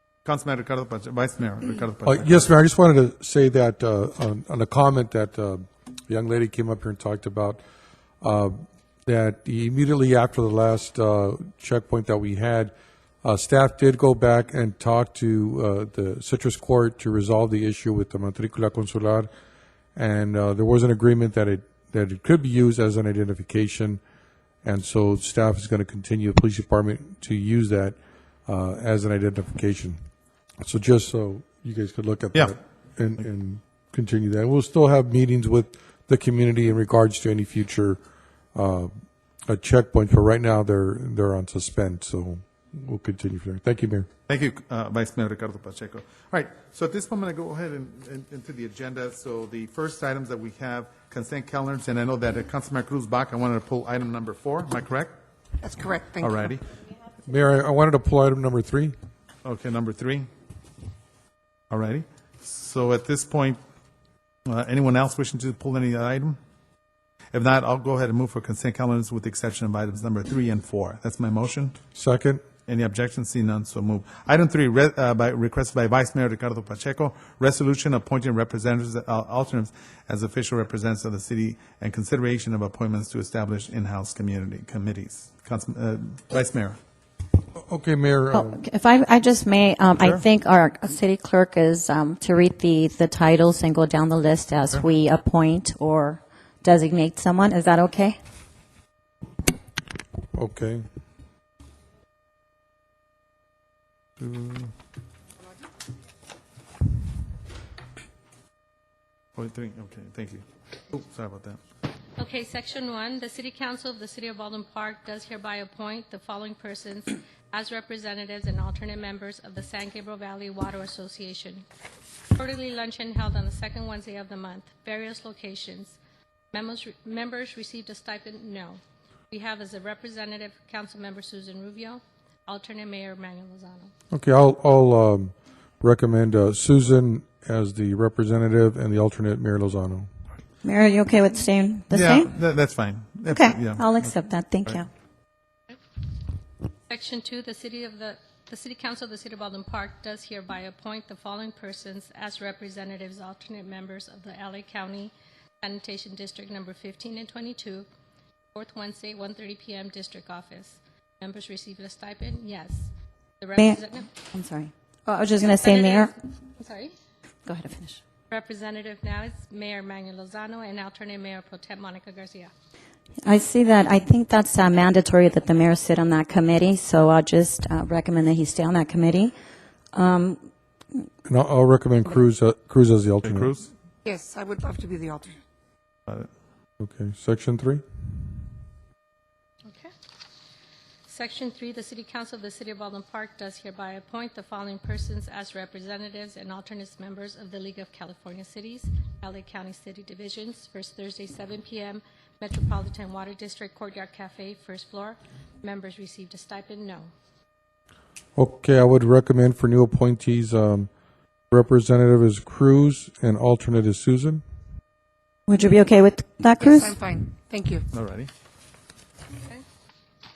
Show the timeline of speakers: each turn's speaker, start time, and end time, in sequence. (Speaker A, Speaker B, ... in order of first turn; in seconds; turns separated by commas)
Speaker A: 0.2-2.5, Speaker B: 2.0-7.6, Speaker B: 8.2-12.7, Speaker B: 13.2-19.3, Speaker B: 19.9-24.0, Speaker B: 24.6-30.0, Speaker B: 30.6-38.0, Speaker B: 38.5-38.9, Speaker B: 39.5-44.1, Speaker A: 44.3-55.1, Speaker C: 55.6-56.5, Speaker A: 56.2-56.6, Speaker B: 57.3-58.9, Speaker A: 59.4-60.3, Speaker A: 61.7-63.6, Speaker A: 64.5-66.4, Speaker A: 67.3-71.8, Speaker B: 72.0-72.4, Speaker A: 72.7-86.8, Speaker B: 87.6-88.6, Speaker D: 88.3-98.2, Speaker B: 100.3-100.8, Speaker A: 104.2-104.7, Speaker A: 109.4-111.6, Speaker E: 112.2-121.7, Speaker E: 122.3-126.0, Speaker E: 126.5-133.9, Speaker B: 134.1-140.1, Speaker D: 140.6-142.3, Speaker A: 141.9-144.1, Speaker D: 143.3-144.9, Speaker E: 146.9-157.9, Speaker E: 158.5-164.1, Speaker D: 163.6-166.1, Speaker E: 165.4-166.9, Speaker D: 167.5-168.0, Speaker E: 168.3-172.5, Speaker D: 173.2-179.3, Speaker D: 179.9-180.4, Speaker B: 181.3-183.5, Speaker A: 183.2-183.7, Speaker C: 184.0-185.4, Speaker B: 186.8-187.8, Speaker E: 189.7-189.9, Speaker E: 191.1-207.1, Speaker B: 208.4-210.9, Speaker B: 211.5-214.4, Speaker D: 215.5-217.0, Speaker C: 216.6-217.8, Speaker A: 217.9-218.3